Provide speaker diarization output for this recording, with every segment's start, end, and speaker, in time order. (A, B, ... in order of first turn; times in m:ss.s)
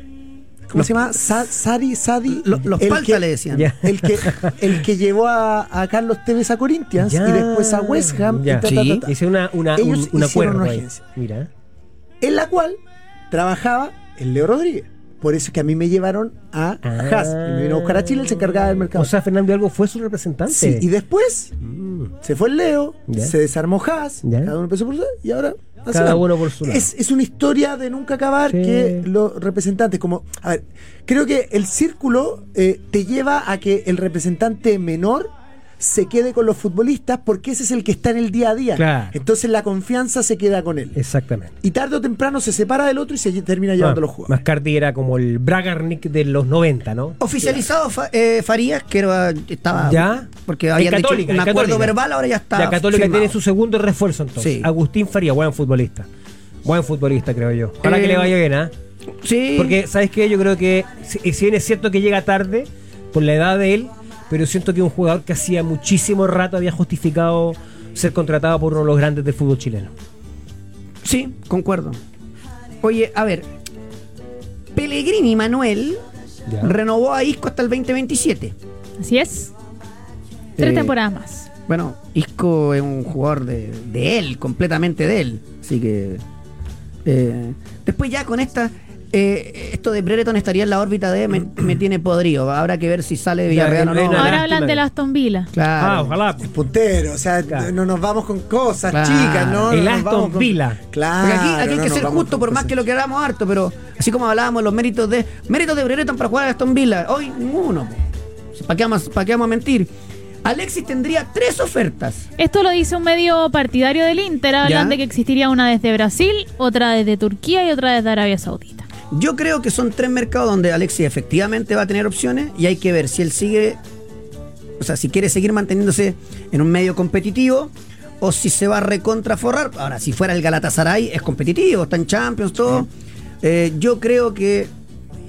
0:00.7-0:09.2 A
0:02.3-0:03.7 B
0:03.5-0:04.7 C
0:07.0-0:11.5 C
0:08.6-0:09.0 B
0:09.7-0:11.0 A
0:12.2-0:12.8 A
0:13.3-0:19.1 A
0:16.8-0:20.9 C
0:20.5-0:21.6 A
0:21.6-0:22.1 C
0:22.2-0:41.0 A
0:23.1-0:23.3 C
0:24.2-0:24.5 C
0:25.9-0:26.9 C
0:28.5-0:29.1 C
0:38.8-0:39.2 C
0:41.0-0:41.5 C
0:41.6-0:44.3 A
0:43.8-0:47.2 C
0:47.2-0:53.3 B
0:49.8-0:52.0 C
0:52.6-0:56.1 C
0:54.4-0:54.7 B
0:56.6-0:58.7 C
0:57.8-0:58.3 B
0:59.2-0:59.8 B
0:59.6-1:09.9 C
1:11.0-1:12.0 B
1:12.8-1:13.5 B
1:14.7-1:16.0 B
1:16.5-1:16.7 C
1:16.6-1:18.6 B
1:19.0-1:19.5 D
1:20.6-1:20.9 B
1:20.6-1:21.5 D
1:21.7-1:26.2 B
1:27.0-1:34.4 B
1:33.5-1:34.8 C
1:34.2-1:35.5 D
1:35.5-1:36.2 B
1:35.8-1:36.5 C
1:36.4-1:42.8 A
1:38.9-1:39.8 B
1:39.7-1:40.8 C
1:41.2-1:49.9 B
1:50.4-1:52.3 B
1:52.4-1:58.9 D
1:54.6-1:55.0 B
1:59.1-2:03.8 B
2:04.8-2:12.9 B
2:13.4-2:14.7 B